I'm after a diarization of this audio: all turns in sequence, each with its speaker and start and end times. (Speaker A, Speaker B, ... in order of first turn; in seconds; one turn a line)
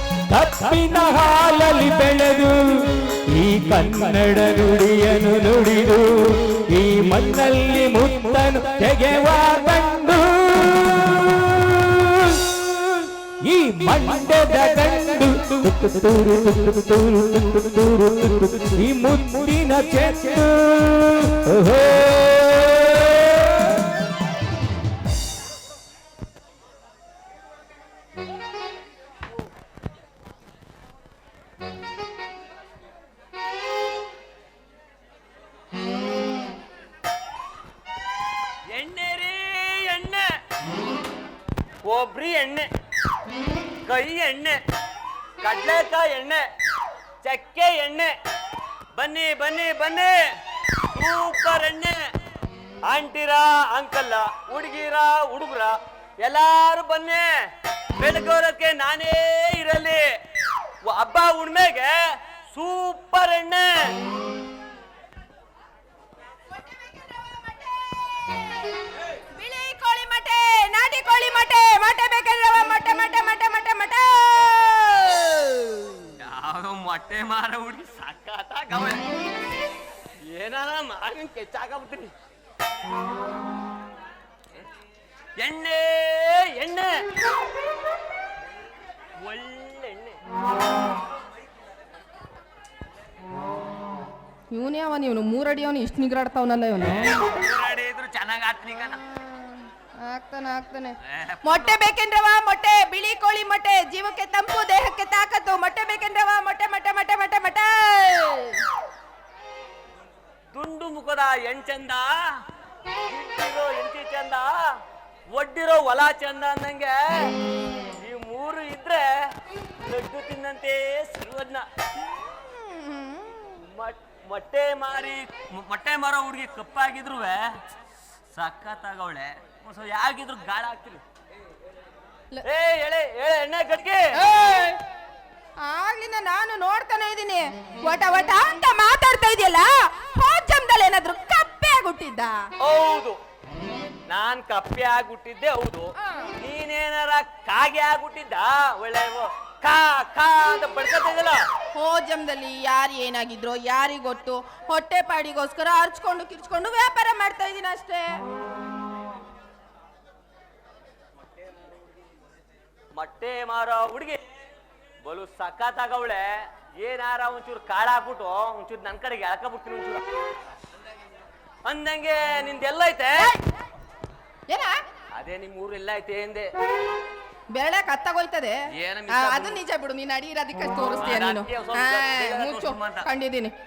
Speaker A: 0.3-23.8
Speaker B: 38.7-40.3
Speaker B: 41.8-42.7
Speaker B: 43.9-44.6
Speaker B: 45.4-46.5
Speaker B: 47.2-48.1
Speaker B: 49.0-50.2
Speaker B: 50.9-52.0
Speaker B: 52.9-57.3
Speaker B: 58.0-60.1
Speaker B: 60.8-63.7
Speaker C: 69.3-75.9
Speaker B: 76.2-79.1
Speaker B: 80.3-82.1
Speaker B: 85.4-86.9
Speaker B: 89.2-90.2
Speaker C: 94.5-97.3
Speaker B: 96.8-99.0
Speaker C: 98.7-108.6
Speaker B: 101.1-101.8
Speaker B: 110.5-112.1
Speaker B: 113.1-114.6
Speaker B: 115.3-117.3
Speaker B: 118.0-119.1
Speaker B: 119.8-121.7
Speaker C: 122.1-123.6
Speaker B: 123.6-127.5
Speaker B: 128.3-131.0
Speaker B: 132.5-134.0
Speaker C: 134.2-134.8
Speaker C: 135.6-142.4
Speaker B: 142.6-143.2
Speaker B: 144.1-151.4
Speaker C: 146.0-146.3
Speaker C: 151.8-158.1
Speaker B: 163.0-164.2
Speaker B: 165.0-170.0
Speaker B: 171.7-173.3
Speaker C: 173.2-173.4
Speaker C: 174.5-174.8
Speaker B: 175.2-176.5
Speaker C: 177.5-178.6
Speaker B: 178.8-179.6
Speaker C: 179.1-183.5
Speaker B: 181.0-183.1